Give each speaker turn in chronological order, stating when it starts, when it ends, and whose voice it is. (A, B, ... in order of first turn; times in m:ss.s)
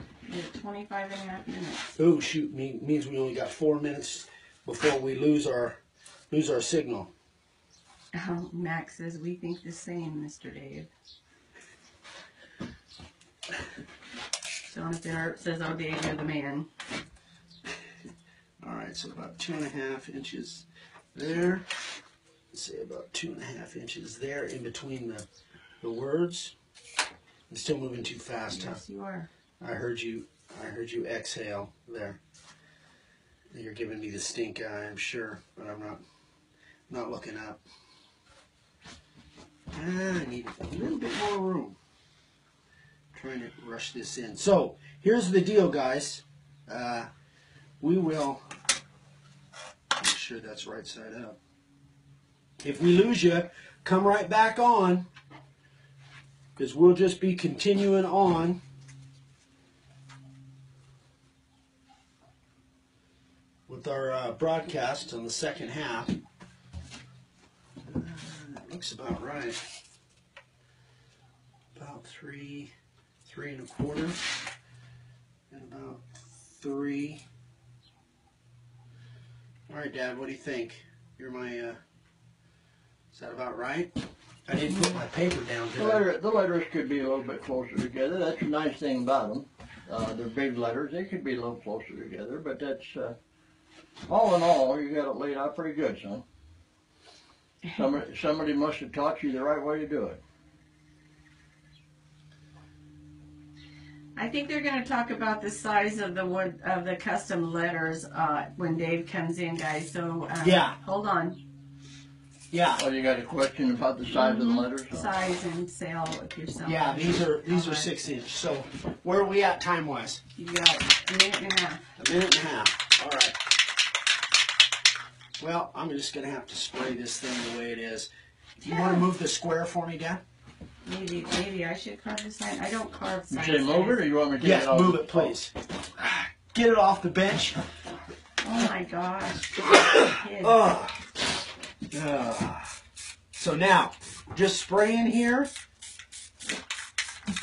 0:00.3-0:01.9 A
0:02.0-0:05.8 B
0:06.3-0:07.1 B
0:08.1-0:10.9 A
0:14.7-0:16.7 A
0:18.6-0:21.7 B
0:22.5-0:25.3 B
0:25.8-0:26.6 B
0:27.5-0:28.8 B
0:28.5-0:29.3 A
0:29.6-0:32.2 B
0:33.5-0:36.0 B
0:36.9-0:37.6 B
0:39.7-0:41.8 B
0:43.1-0:47.1 B
0:47.8-0:48.4 B
0:50.0-0:51.4 B
0:52.6-0:55.1 B
0:56.6-0:58.6 B
1:03.7-1:06.2 B
1:07.8-1:09.6 B
1:11.8-1:12.7 B
1:13.2-1:14.2 B
1:15.5-1:17.2 B
1:19.7-1:21.8 B
1:23.1-1:23.9 B
1:24.5-1:26.0 B
1:25.8-1:33.2 C
1:34.1-1:36.2 C
1:37.8-1:40.2 C
1:44.2-1:51.4 A
1:50.4-1:50.8 B
1:52.5-1:52.8 B
1:52.8-1:55.1 C
1:54.1-1:57.9 A
1:56.6-2:00.2 B
2:00.4-2:01.9 A
2:02.0-2:03.4 B
2:05.4-2:08.1 B
2:08.6-2:09.1 A
2:08.6-2:10.2 B
2:10.8-2:14.0 A
2:13.3-2:15.4 C
2:14.4-2:17.6 B
2:18.4-2:20.6 A
2:19.8-2:21.0 B
2:21.9-2:22.7 B
2:23.4-2:25.5 B